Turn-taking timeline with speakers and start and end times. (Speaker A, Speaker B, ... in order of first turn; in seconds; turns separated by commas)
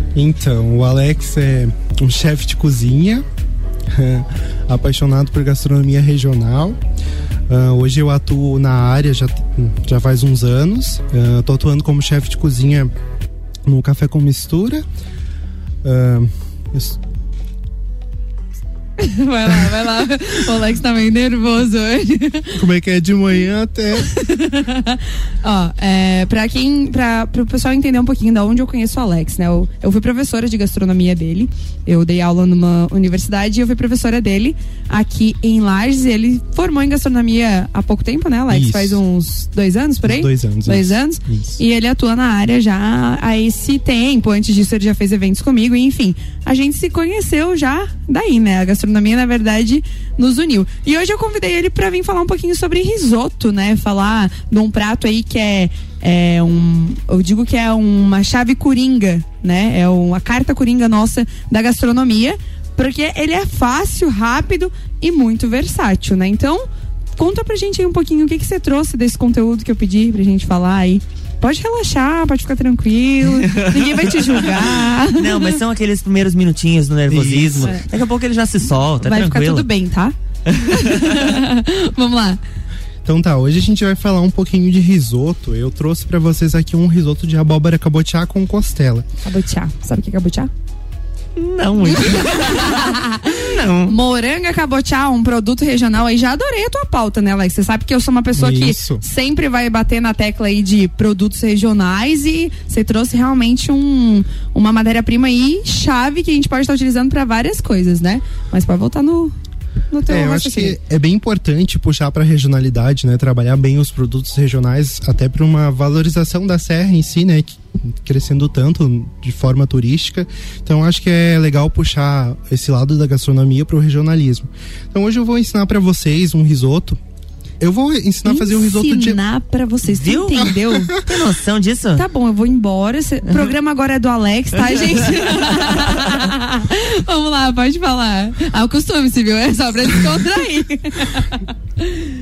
Speaker A: 0.1-3.2, Speaker A: 3.9-6.8, Speaker A: 7.5-12.9, Speaker A: 13.7-14.8, Speaker A: 15.8-17.0, Speaker B: 19.0-22.6, Speaker A: 19.5-19.8, Speaker A: 22.5-24.1, Speaker B: 24.0-75.6, Speaker A: 38.5-39.0, Speaker A: 40.0-41.6, Speaker C: 73.4-73.7, Speaker C: 74.4-79.7, Speaker A: 77.1-77.8, Speaker B: 79.0-82.4, Speaker A: 83.0-89.1, Speaker B: 89.2-90.5, Speaker C: 91.3-93.9, Speaker B: 91.8-109.3, Speaker A: 98.3-99.0, Speaker B: 109.9-110.8, Speaker A: 110.1-127.0, Speaker A: 127.6-129.2, Speaker B: 128.2-130.9, Speaker C: 129.8-132.0, Speaker A: 130.4-131.0, Speaker B: 132.0-142.0